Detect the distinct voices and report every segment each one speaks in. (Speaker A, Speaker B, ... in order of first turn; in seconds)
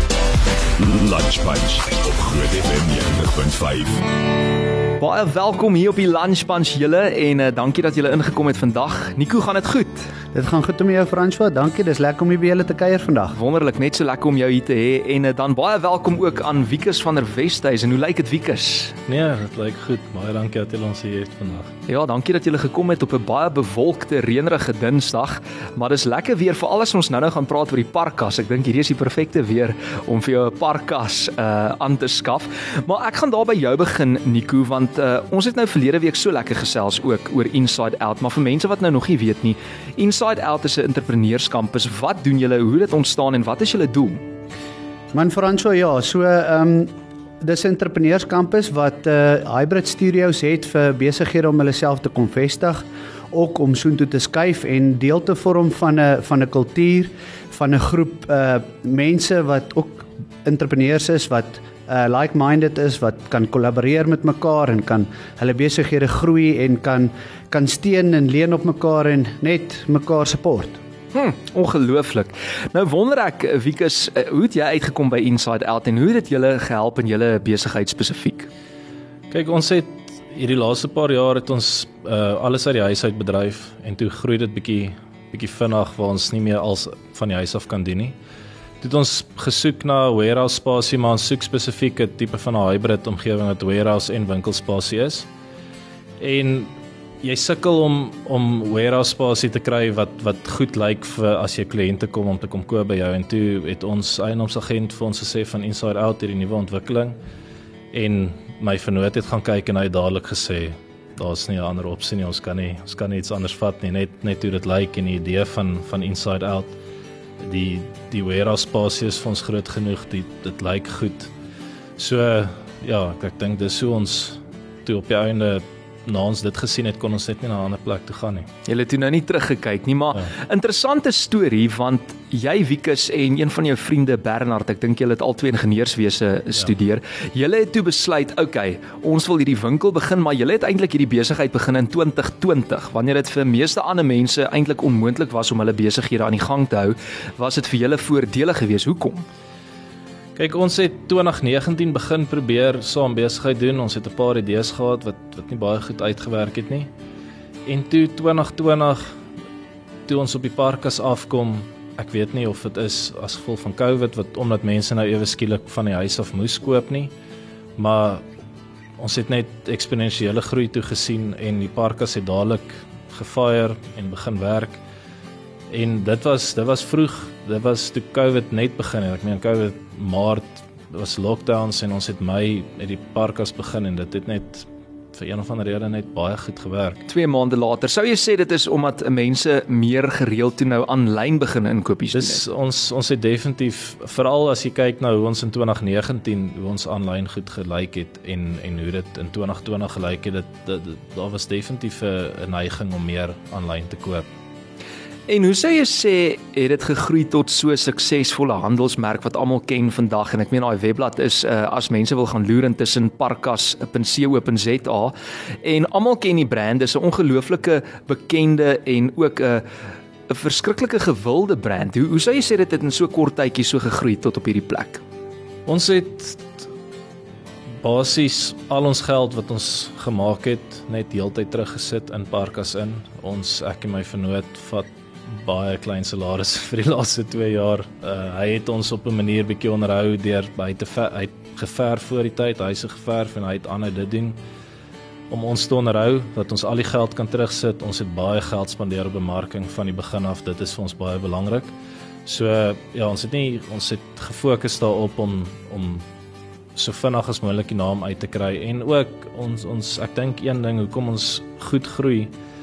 Speaker A: 0.8-4.0
Speaker B: 5.0-10.1, 13.3-18.9, 21.9-44.2, 71.1-78.5, 128.7-149.2, 187.1-192.4, 205.3-219.6, 220.3-225.0
Speaker C: 10.3-13.3, 45.1-70.8
Speaker D: 19.1-21.7, 79.3-88.2, 88.8-95.3, 96.2-107.2, 107.9-116.8, 117.4-121.3, 122.0-128.5, 150.3-156.9, 157.7-159.0, 160.1-167.1, 167.8-168.2, 169.0-174.8, 175.7-187.0, 192.1-204.2, 225.7-226.7, 227.8-244.4, 245.3-251.7, 252.2-256.0, 256.8-262.3